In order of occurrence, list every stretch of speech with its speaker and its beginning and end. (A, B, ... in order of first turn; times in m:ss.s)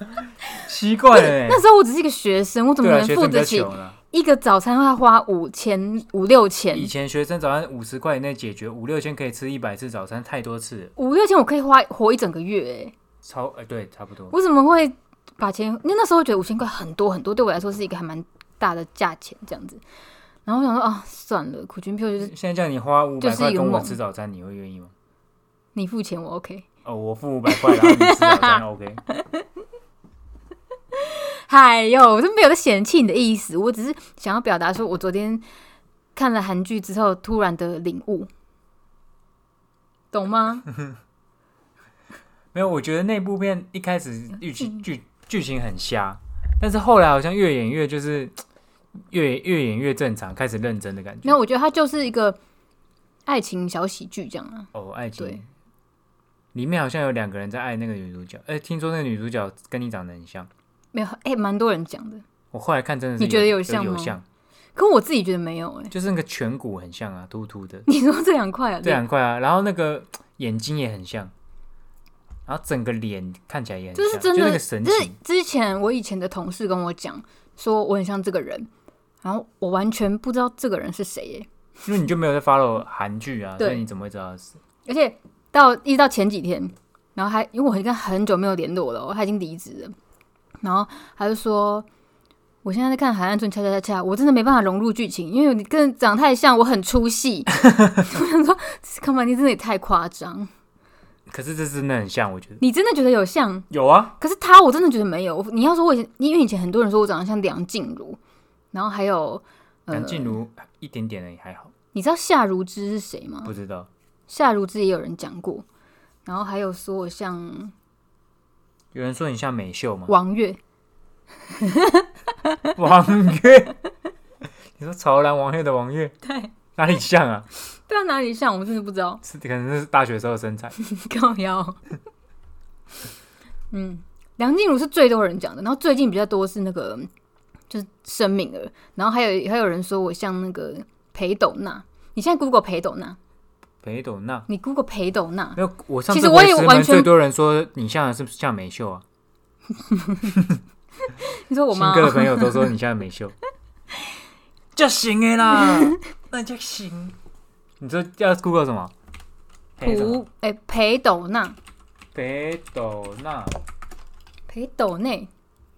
0:00.1-0:01.6 A
0:01.2-0:06.9 B
0:02.8-0:04.0 A
0:06.7-0:10.9 A
0:11.0-0:12.9 B
0:13.2-0:14.3 A
0:14.3-0:19.8 B
0:20.4-0:22.3 B
0:22.2-0:24.9 A
0:23.2-0:24.0 B
0:25.7-0:26.6 B
0:26.8-0:29.0 A
0:27.5-0:28.6 B
0:29.1-0:29.4 B
0:31.0-0:35.4 B
0:36.1-0:38.3 B
0:40.1-0:40.7 B
0:42.5-0:48.4 A
0:49.1-0:51.4 A
0:51.2-0:52.4 B
0:53.2-0:55.4 B
0:54.7-0:55.5 A
0:56.5-1:00.5 A
1:00.9-1:02.2 B
1:02.5-1:04.2 A
1:03.2-1:04.1 B
1:04.8-1:05.9 B
1:05.9-1:07.8 A
1:07.9-1:09.0 B
1:08.8-1:11.3 A
1:12.5-1:15.1 A
1:14.0-1:18.7 B
1:19.2-1:21.5 B
1:21.8-1:24.6 A
1:24.8-1:29.9 B
1:30.6-1:31.8 B
1:32.6-1:40.5 B
1:41.3-1:42.6 A
1:42.6-1:43.7 B
1:43.7-1:44.2 A
1:44.2-1:48.2 B
1:48.7-1:50.4 B
1:49.9-1:51.7 A
1:51.9-1:53.5 B
1:53.4-1:53.9 A
1:54.3-1:55.6 B
1:56.2-1:57.7 B
1:58.9-2:00.1 A
2:00.1-2:00.6 B
2:01.5-2:02.7 B
2:02.7-2:03.8 A
2:04.8-2:06.1 A
2:06.2-2:06.5 B
2:06.7-2:07.5 A
2:07.9-2:09.2 B
2:09.2-2:10.8 A
2:10.8-2:11.8 B
2:13.7-2:17.1 B
2:17.7-2:23.2 B
2:23.8-2:24.5 A
2:24.5-2:27.1 B
2:25.6-2:29.0 A
2:29.9-2:30.3 B
2:30.3-2:30.6 A
2:31.1-2:32.6 B
2:31.7-2:33.3 A
2:34.7-2:37.2 A
2:35.6-2:35.9 B
2:37.8-2:38.9 A
2:39.8-2:40.2 A
2:39.8-2:41.6 B
2:42.1-2:43.6 A
2:44.5-2:45.3 B